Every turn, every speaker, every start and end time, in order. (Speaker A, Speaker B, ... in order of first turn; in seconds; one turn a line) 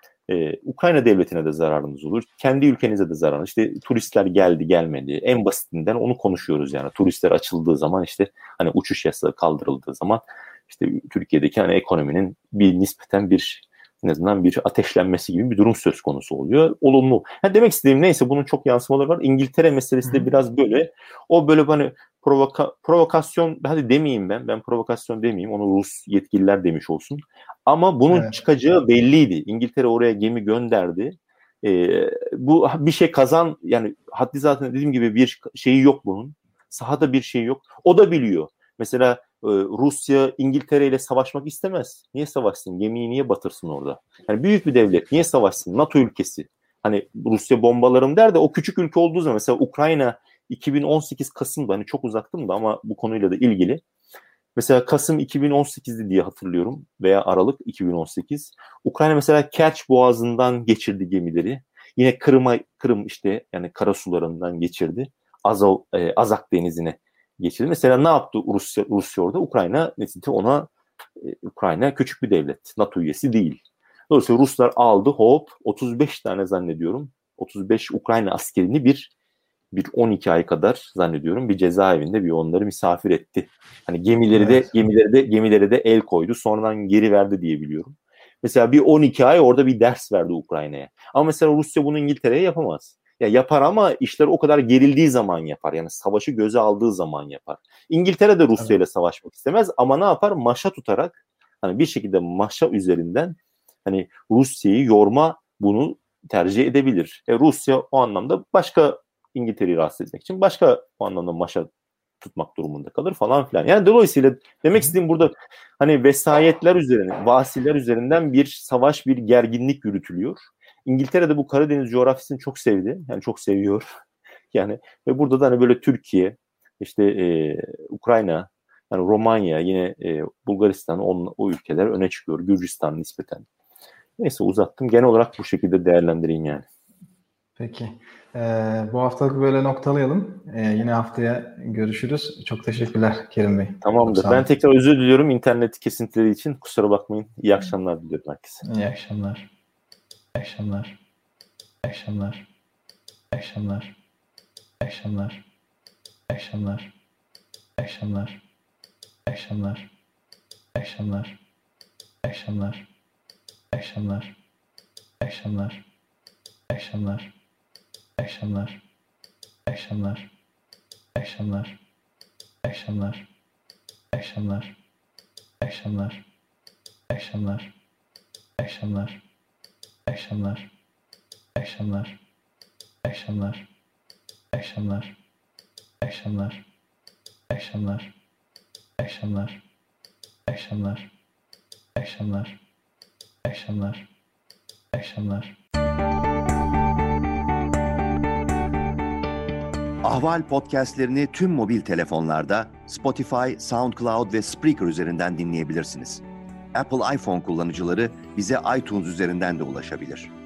Speaker A: 0.3-53.8
Speaker B: 20.0-20.3
Speaker B: 28.1-28.3
Speaker A: 54.6-79.1
Speaker A: 79.7-111.7
Speaker B: 84.3-84.7
Speaker A: 112.2-123.9
Speaker A: 124.5-133.4
Speaker A: 134.2-136.7
Speaker B: 137.6-144.5
Speaker A: 143.8-148.6
Speaker B: 148.6-149.5
Speaker B: 150.4-150.9
Speaker B: 151.8-152.4
Speaker B: 153.3-153.9
Speaker B: 154.8-155.4
Speaker B: 156.3-156.9
Speaker B: 157.8-158.4
Speaker B: 159.3-159.9
Speaker B: 160.8-161.4
Speaker B: 162.2-162.8
Speaker B: 163.7-164.3
Speaker B: 165.2-165.8
Speaker B: 166.7-167.3
Speaker B: 168.2-168.8
Speaker B: 169.7-170.3
Speaker B: 171.2-171.8
Speaker B: 172.6-173.3
Speaker B: 174.1-174.7
Speaker B: 175.6-176.2
Speaker B: 177.1-177.7
Speaker B: 178.6-179.2
Speaker B: 180.1-180.7
Speaker B: 181.6-182.2
Speaker B: 183.1-183.7
Speaker B: 184.5-185.1
Speaker B: 186.0-186.6
Speaker B: 187.5-188.1
Speaker B: 189.0-189.6
Speaker B: 190.5-191.1
Speaker B: 192.0-192.6
Speaker B: 193.5-194.1
Speaker B: 194.9-195.5
Speaker C: 200.0-206.2
Speaker C: 206.7-210.3